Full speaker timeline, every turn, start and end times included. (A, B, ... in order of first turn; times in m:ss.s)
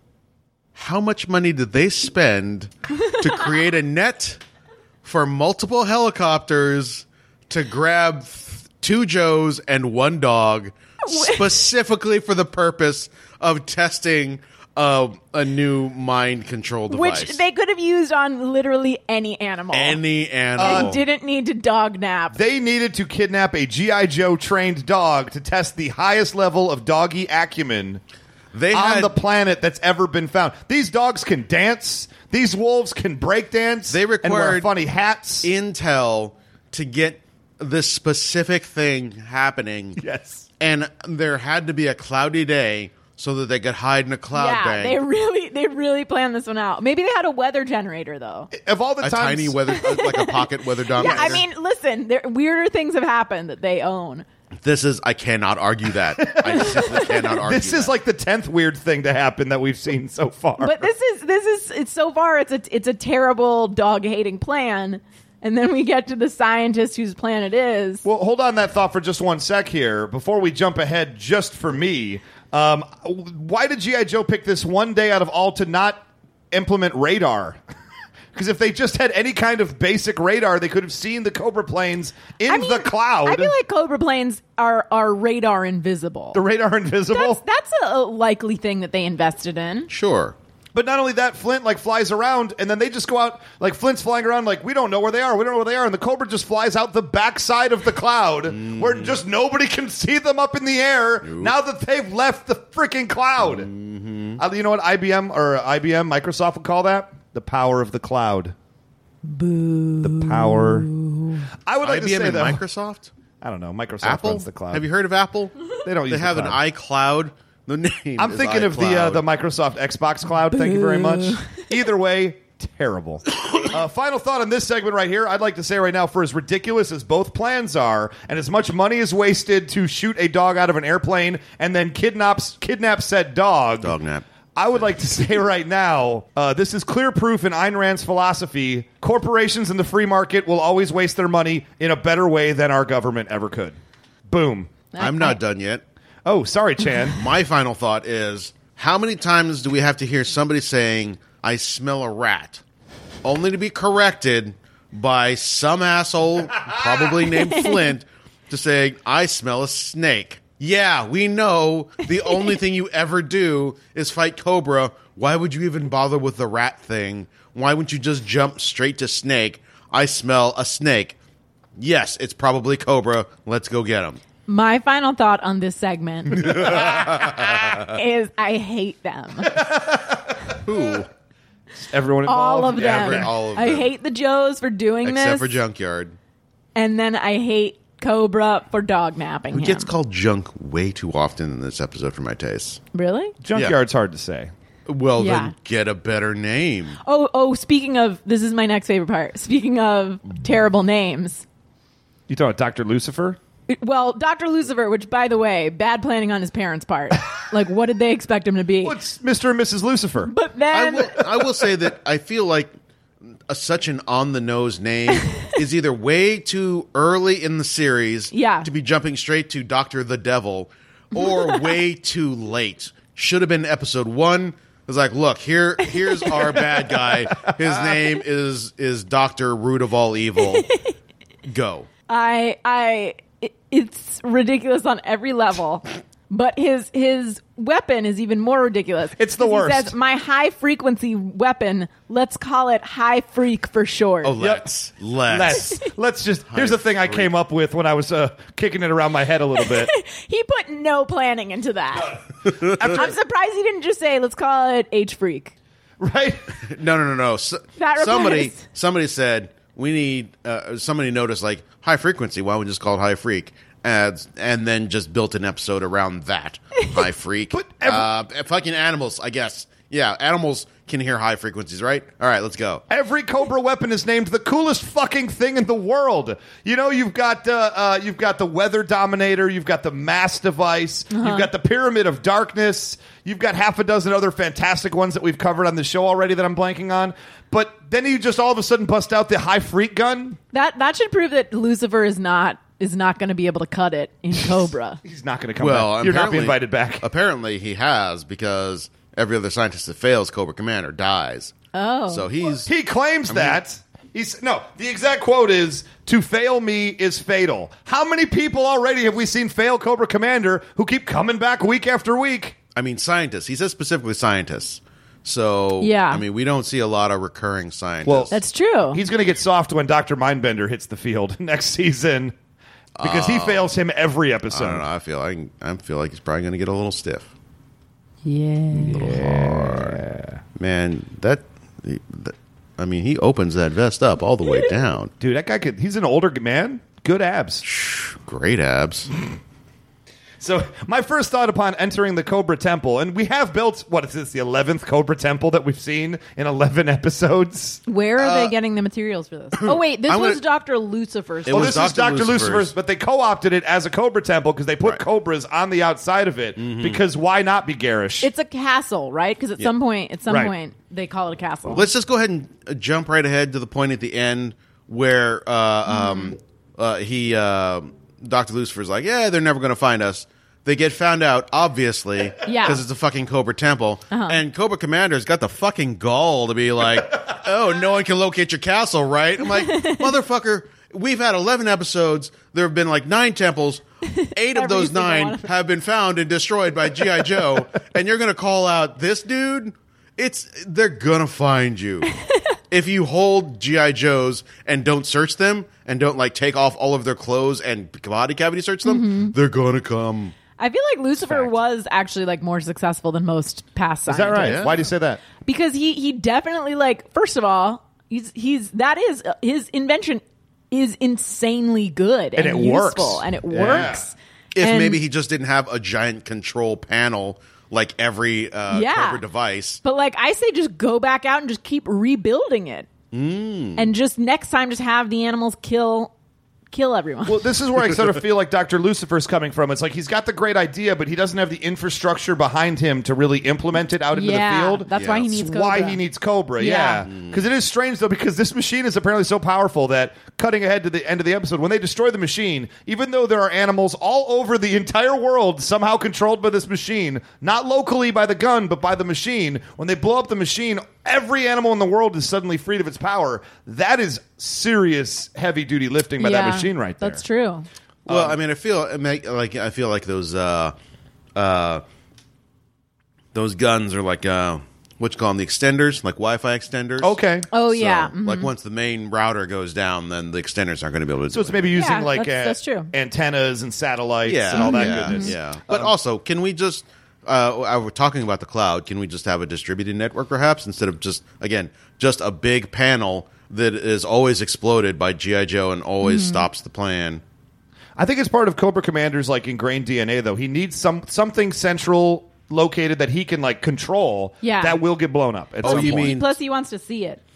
0:00.8-0:04.4 A
0:05.0-0:17.4 A
0:11.0-0:11.4 B
0:16.9-0:20.0 B
0:19.7-0:21.0 A
0:20.6-0:21.0 C
0:20.6-0:22.4 B
0:22.3-0:28.0 C
0:28.5-0:29.1 A
0:28.7-0:35.5 C
0:33.9-0:34.7 A
0:35.4-0:40.0 A
0:40.0-0:40.4 C
0:40.6-0:45.0 A
0:44.3-0:48.5 B
0:48.5-0:49.6 C
0:49.0-0:51.4 A
0:49.8-0:54.2 B
0:51.0-0:51.4 C
0:54.6-0:57.9 A
0:56.2-1:00.9 C
1:00.6-1:08.0 B
1:08.0-1:17.6 C
1:18.3-1:23.5 C
1:22.5-1:26.4 B
1:26.3-1:27.4 C
1:27.1-1:29.9 B
1:29.9-1:30.3 A
1:30.7-1:43.7 C
1:38.5-1:39.2 A
1:41.2-1:41.5 A
1:43.4-1:44.4 A
1:44.4-1:48.5 C
1:49.2-1:51.4 B
1:50.0-1:50.9 C
1:51.6-1:52.6 C
1:51.8-1:53.1 A
1:53.4-1:54.8 C
1:54.0-1:59.2 A
1:55.8-1:56.6 C
1:58.2-2:13.9 C
2:00.5-2:01.6 B
2:13.8-2:14.2 A
2:14.6-2:23.8 C
2:24.3-2:24.7 C
2:24.9-2:25.4 B
2:25.0-2:25.8 A
2:26.2-2:27.2 C
2:27.1-2:32.6 A
2:33.2-2:51.2 A
2:37.4-2:37.9 B
2:51.8-2:54.2 A
2:54.5-2:59.6 B
2:56.3-2:57.8 A
2:59.5-3:00.3 C
3:00.6-3:01.1 A
3:01.8-3:03.3 C
3:02.2-3:05.6 B
3:02.7-3:03.9 A
3:05.0-3:06.2 A
3:06.7-3:09.9 B
3:09.5-3:12.8 A
3:12.9-3:13.4 B
3:13.4-3:14.5 C
3:14.9-3:17.0 A
3:15.2-3:15.5 B
3:17.0-3:21.4 B
3:22.3-3:23.4 C
3:23.7-3:29.0 B
3:28.8-3:30.3 C
3:30.2-3:31.2 B
3:30.7-3:32.7 A
3:33.5-3:50.7 A
3:38.3-3:38.7 B
3:41.2-3:41.7 B
3:47.3-3:47.7 C
3:50.5-3:50.8 B
3:51.4-3:51.9 A
3:52.1-4:04.3 B
3:59.2-3:59.9 C
4:04.2-4:05.8 A
4:04.4-4:04.7 C
4:05.2-4:09.9 C
4:06.5-4:07.3 A
4:09.6-4:12.2 B
4:12.4-4:13.0 A
4:12.6-4:13.1 C
4:12.8-4:15.5 B
4:16.0-4:16.4 C
4:16.6-4:32.8 A
4:17.8-4:18.6 B
4:27.5-4:28.1 C
4:32.9-4:50.4 C
4:41.1-4:41.5 B
4:50.5-4:55.0 B
4:55.0-4:57.0 C
4:55.6-5:01.5 A
5:01.7-5:02.3 B
5:02.1-5:02.7 A
5:02.6-5:12.6 C
5:03.3-5:03.6 A
5:12.7-5:18.4 A
5:15.8-5:16.2 B
5:18.0-5:18.3 C
5:18.3-5:19.0 B
5:18.9-5:22.3 C
5:23.0-5:23.6 A
5:23.0-5:24.8 C
5:24.5-5:27.3 A
5:28.2-5:29.1 B
5:28.7-5:30.4 C
5:28.9-5:30.0 A
5:30.6-5:35.1 A
5:35.2-5:37.6 C
5:37.6-5:39.1 A
5:40.4-5:47.8 C
5:47.9-5:51.8 B
5:48.2-5:48.5 A
5:49.6-5:50.4 A
5:51.4-5:52.7 A
5:51.5-5:58.3 C
5:56.6-5:57.0 A
5:58.2-6:01.8 B
6:00.3-6:00.5 C
6:01.7-6:23.8 A
6:05.9-6:06.3 B
6:12.4-6:12.8 B
6:14.1-6:14.4 B
6:19.4-6:20.1 B
6:24.1-6:25.5 B
6:24.3-6:32.1 A
6:32.1-6:32.4 B
6:32.7-6:40.4 A
6:38.8-6:39.3 B
6:40.6-6:44.6 B
6:41.2-6:41.5 C
6:44.1-6:45.2 C
6:44.4-6:44.8 A
6:45.4-6:55.0 B
6:52.4-6:54.0 C
6:54.5-6:59.8 A
6:58.7-6:59.2 B
6:59.8-7:02.9 B
7:03.1-7:03.9 A
7:03.8-7:06.1 B
7:06.7-7:07.4 B
7:07.2-7:37.2 C
7:14.1-7:16.0 B
7:14.9-7:15.3 A
7:16.6-7:17.0 B
7:17.1-7:17.4 A
7:36.2-7:37.6 B
7:38.0-7:38.4 C
7:38.1-7:40.7 A
7:41.4-7:41.8 A
7:43.3-7:51.7 A
7:47.0-7:47.4 C
7:47.5-7:48.5 B
7:51.3-7:55.9 C
7:51.8-7:52.9 B
7:54.2-8:07.2 A
7:54.5-7:55.3 B
8:06.0-8:06.4 B
8:08.0-8:16.1 C
8:14.4-8:14.8 B
8:15.6-8:16.3 A
8:15.6-8:17.2 B